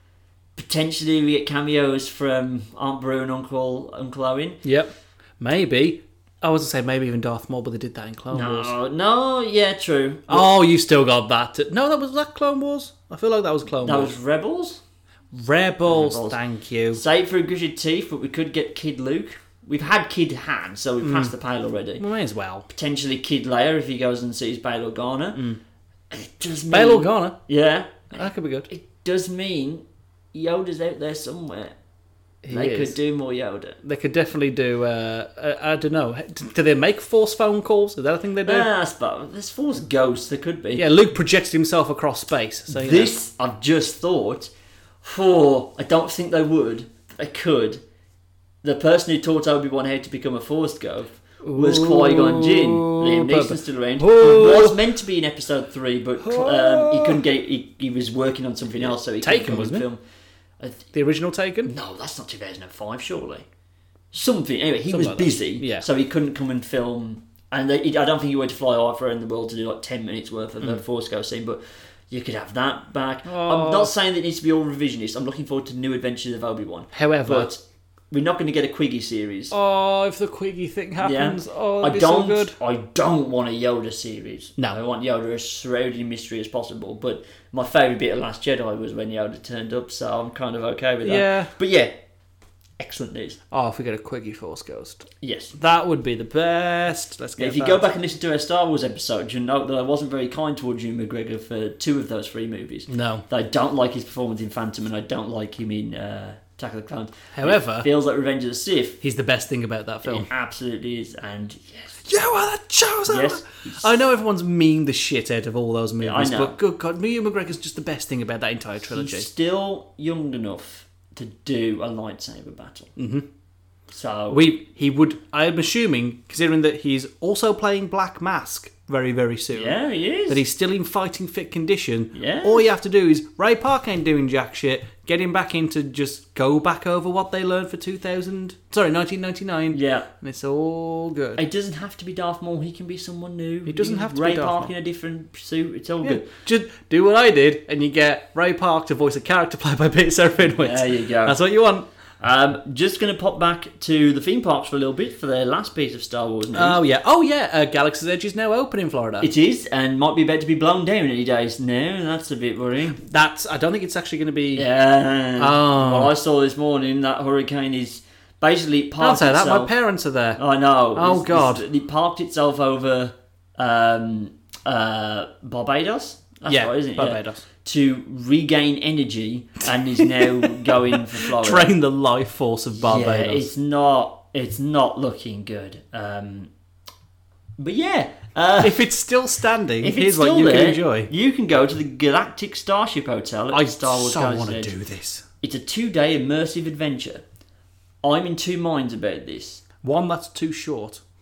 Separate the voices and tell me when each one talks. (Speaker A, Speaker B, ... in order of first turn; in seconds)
Speaker A: 0.6-4.6, 8.3-10.5, 13.8-14.8, 15.9-16.4, 16.9-22.0, 22.7-25.4, 26.1-31.7, 32.5-33.8, 38.4-40.8, 42.7-44.5, 45.0-47.8, 48.6-60.0, 60.6-60.8, 61.6-63.5, 64.1-79.5, 81.0-91.9, 92.8-93.4, 95.2-95.5, 97.4-109.0, 110.0-112.1, 113.0-114.0, 116.0-116.5, 118.9-122.9, 123.9-124.5, 129.5-130.4, 132.1-132.7, 139.7-140.1, 141.3-146.2, 150.6-151.4, 152.2-156.8, 159.2-163.0, 164.5-169.7, 170.4-181.7, 182.7-186.5, 187.6-188.9, 189.8-194.7, 195.4-197.2, 198.0-199.6
Speaker B: 4.6-8.7, 10.3-14.1, 15.3-17.0, 21.0-21.3, 22.0-22.7, 25.3-25.6, 26.7-27.4, 28.1-28.7, 32.4-33.0, 33.8-38.7, 40.7-43.1, 51.4-54.8, 56.2-57.2, 58.9-59.9, 60.9-61.7, 64.9-65.9, 73.2-73.9, 76.9-77.5, 79.5-82.5, 91.0-91.5, 93.5-97.8, 102.9-103.2, 107.3-107.9, 109.0-110.3, 112.1-119.3, 123.0-123.2, 124.3-129.8, 130.3-141.4, 143.7-144.7, 146.0-151.9, 156.5-159.3, 162.9-164.7, 165.4-166.1, 169.0-170.4, 170.9-171.7, 176.5-177.4, 180.1-183.5, 188.6-191.1, 193.5-195.2, 199.8-201.0